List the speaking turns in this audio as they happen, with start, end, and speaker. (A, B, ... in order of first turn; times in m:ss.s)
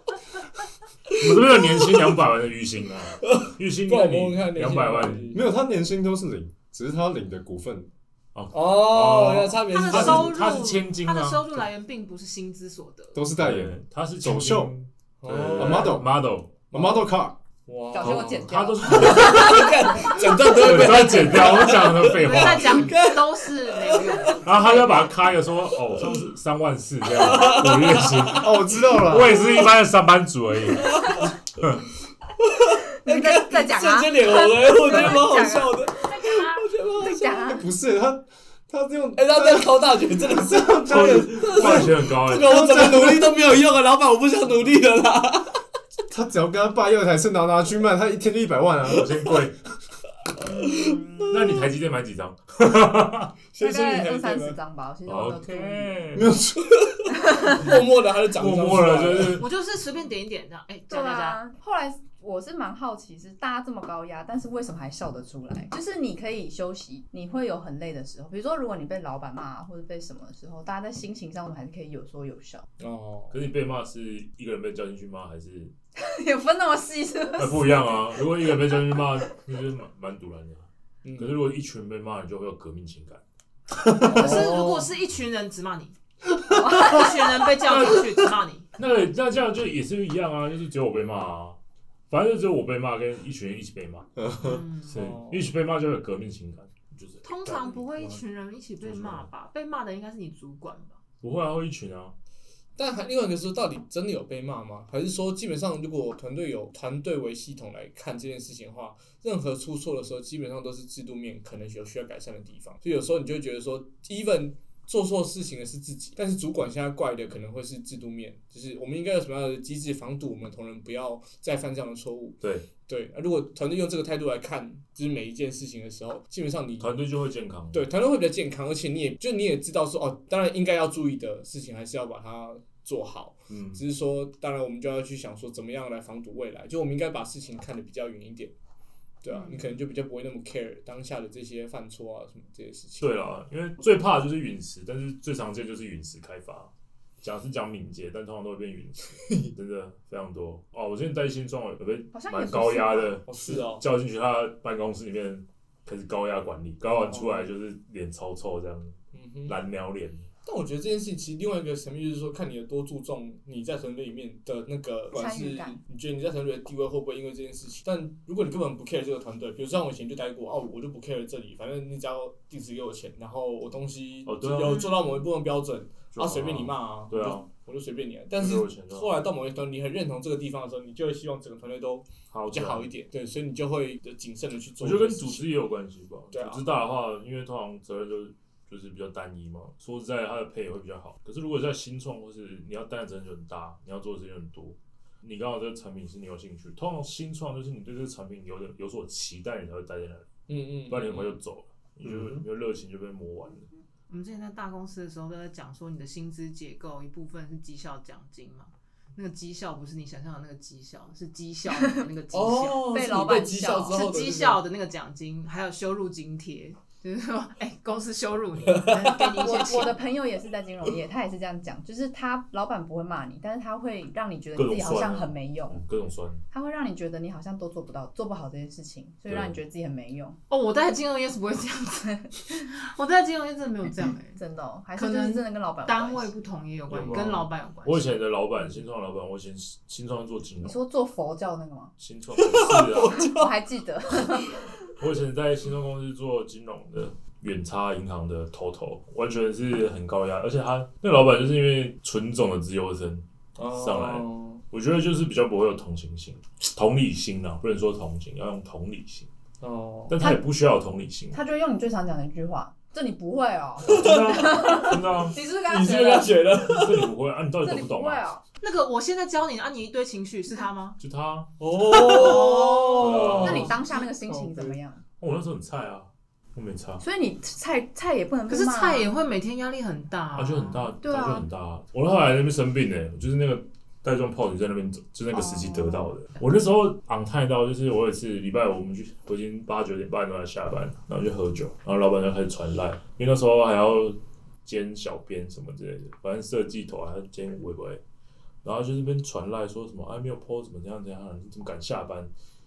0:01.1-0:01.9 A
0:01.2-0:05.3 B
0:03.2-0:05.5 A
0:05.3-0:07.9 C
0:08.3-0:11.6 B
0:08.5-0:10.5 A
0:09.7-0:13.2 D
0:13.1-0:14.7 C
0:13.4-0:16.7 B
0:15.2-0:16.1 A
0:15.5-0:16.1 C
0:16.7-0:17.1 A
0:16.7-0:17.4 C
0:17.7-0:24.8 A
0:17.9-0:19.7 E
0:18.0-0:22.9 B
0:22.0-0:25.1 D
0:24.4-0:31.8 B
0:27.2-0:28.4 A
0:28.3-0:29.4 C
0:30.8-0:31.3 A
0:32.4-0:37.5 A
0:33.0-0:36.3 E
0:36.0-0:36.7 D
0:37.0-0:37.6 E
0:37.4-0:43.4 C
0:39.2-0:45.6 A
0:40.9-0:42.8 B
0:46.1-0:49.3 C
0:48.9-0:49.7 B
0:50.4-0:51.4 E
0:50.7-0:51.6 A
0:51.3-0:53.3 B
0:53.5-0:54.6 A
0:53.6-0:56.0 E
0:55.1-0:56.4 B
0:56.2-0:56.8 C
0:56.8-0:59.4 A
0:57.1-0:57.7 E
0:58.3-0:59.5 B
0:59.4-1:01.4 D
1:00.9-1:12.7 E
1:12.8-1:13.4 A
1:13.3-1:15.7 B
1:16.0-1:17.9 E
1:17.4-1:23.2 B
1:21.0-1:21.4 A
1:24.1-1:24.9 A
1:24.1-1:26.0 D
1:26.5-1:27.1 E
1:26.6-1:28.7 D
1:27.6-1:28.0 B
1:28.8-1:31.6 B
1:32.1-1:34.1 B
1:34.2-1:34.6 C
1:34.4-1:35.1 D
1:34.9-1:38.2 B
1:34.9-1:35.5 A
1:37.2-1:41.0 D
1:38.8-1:39.3 B
1:41.2-1:42.2 B
1:42.8-2:07.0 A
2:02.4-2:02.7 B
2:06.8-2:07.9 B
2:07.7-2:18.6 A
2:13.5-2:13.8 B
2:19.2-2:23.1 A
2:23.0-2:40.3 B
2:29.3-2:29.5 A
2:32.1-2:33.2 E
2:33.2-2:33.8 A
2:36.9-2:37.5 A
2:39.1-2:39.6 A
2:40.4-3:05.5 A
2:45.1-2:45.8 E
2:54.2-2:54.9 B
2:56.1-2:57.5 B
2:58.3-2:59.2 B
3:02.3-3:02.9 B
3:04.8-3:23.7 B
3:06.3-3:06.6 A
3:20.5-3:21.4 A
3:24.1-3:33.0 D
3:32.3-3:34.6 A
3:32.9-3:34.1 E
3:33.9-3:40.0 D
3:38.7-3:39.2 A
3:39.4-3:45.8 E
3:44.6-3:46.4 B
3:46.5-3:50.4 E
3:49.3-3:49.6 B
3:50.5-3:54.4 D
3:54.4-3:56.3 E
3:55.0-3:58.2 D
3:56.9-4:00.8 B
4:00.6-4:01.9 E
4:02.0-4:03.2 B
4:02.4-4:03.6 A
4:03.2-4:04.8 E
4:05.0-4:19.3 B
4:13.6-4:14.6 A
4:19.6-4:20.2 A
4:20.1-4:21.4 B
4:21.3-4:26.4 E
4:23.8-4:25.4 B
4:23.9-4:25.0 A
4:25.7-4:27.1 A
4:25.9-4:28.3 B
4:27.6-4:28.4 E
4:28.6-4:31.0 D
4:31.0-4:31.5 B
4:31.6-4:34.8 A
4:31.9-4:33.5 D
4:32.2-4:35.0 E
4:33.0-4:33.8 B
4:35.2-4:37.0 B
4:37.0-4:39.1 E
4:38.5-4:40.9 D
4:40.3-4:58.0 B
4:41.0-4:41.5 E
4:45.3-4:46.1 E
4:58.6-5:02.3 B